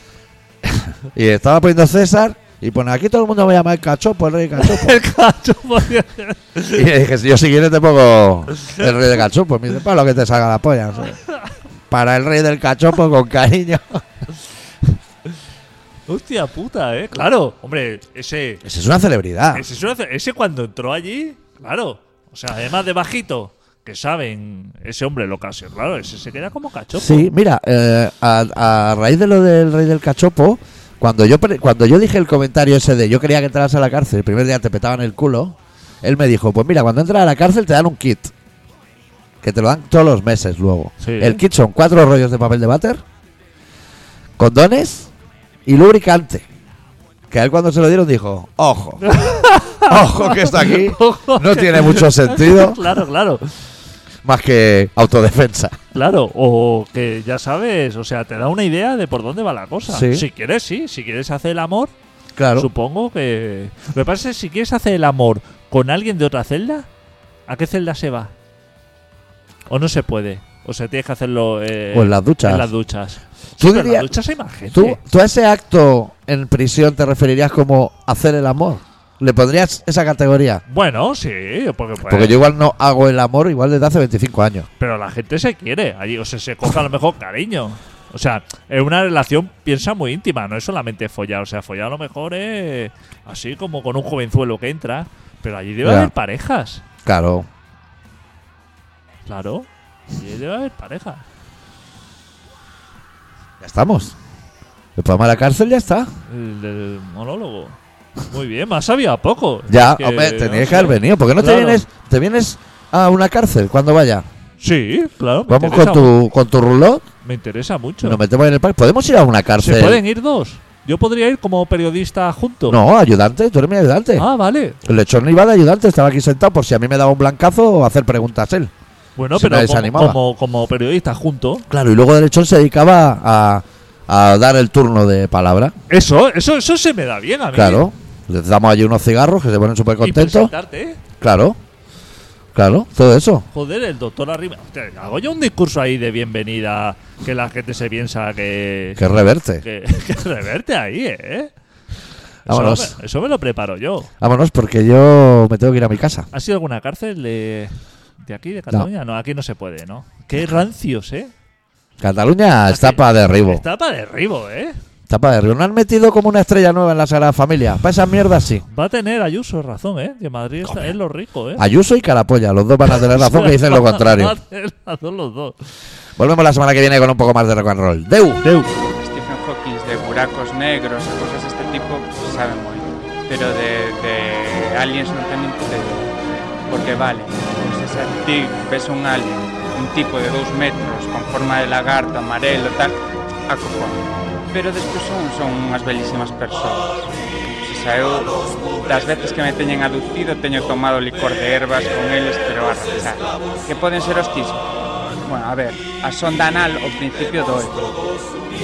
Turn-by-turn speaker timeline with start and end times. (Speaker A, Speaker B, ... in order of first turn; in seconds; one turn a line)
Speaker A: 0.6-5.0
Speaker B: 4.6-6.8
Speaker A: 6.7-11.2
Speaker A: 11.9-14.0
Speaker B: 16.1-18.6
Speaker A: 18.6-19.6
Speaker B: 19.5-27.3
Speaker A: 26.9-38.3
Speaker A: 39.4-43.0
Speaker B: 41.0-41.4
Speaker A: 44.4-45.1
Speaker A: 45.7-46.5
Speaker A: 47.3-52.8
Speaker B: 49.0-53.5
Speaker A: 54.2-55.8
Speaker B: 55.9-61.9
Speaker A: 59.9-60.3
Speaker A: 62.4-62.7
Speaker B: 62.6-66.9
Speaker B: 67.5-68.3
Speaker B: 69.7-75.0
Speaker A: 71.9-72.7
Speaker A: 73.6-74.2
Speaker A: 74.7-80.6
Speaker B: 80.7-82.4
Speaker A: 82.0-84.7
Speaker B: 84.8-96.8
Speaker A: 95.8-96.1
Speaker A: 97.0-97.5
Speaker B: 99.3-101.2
Speaker A: 103.6-104.2
Speaker A: 105.0-106.1
Speaker B: 106.3-111.8
Speaker A: 109.7-114.3
Speaker B: 114.6-116.1
Speaker A: 115.5-117.0
Speaker B: 117.2-118.2
Speaker A: 118.0-120.0
Speaker B: 119.6-122.8
Speaker A: 122.7-124.3
Speaker B: 124.2-124.8
Speaker A: 124.8-128.7
Speaker B: 129.2-131.7
Speaker A: 129.3-130.2
Speaker A: 131.7-135.7
Speaker B: 135.9-137.9
Speaker A: 137.5-140.5
Speaker B: 140.0-141.0
Speaker A: 141.2-141.6
Speaker A: 142.6-143.4
Speaker B: 143.5-149.0
Speaker A: 149.0-149.6
Speaker B: 149.6-151.5
Speaker B: 152.5-154.1
Speaker A: 152.5-152.9
Speaker A: 154.2-156.3
Speaker B: 156.3-161.3
Speaker A: 162.0-163.6
Speaker B: 162.7-164.8
Speaker A: 165.1-168.6
Speaker B: 168.7-171.7
Speaker A: 171.6-174.3
Speaker B: 172.9-175.6
Speaker A: 176.2-178.4
Speaker B: 178.4-178.7
Speaker C: 179.0-186.1
Speaker C: 186.7-193.0
Speaker C: 193.5-197.0
Speaker C: 197.6-204.6
Speaker C: 205.2-208.0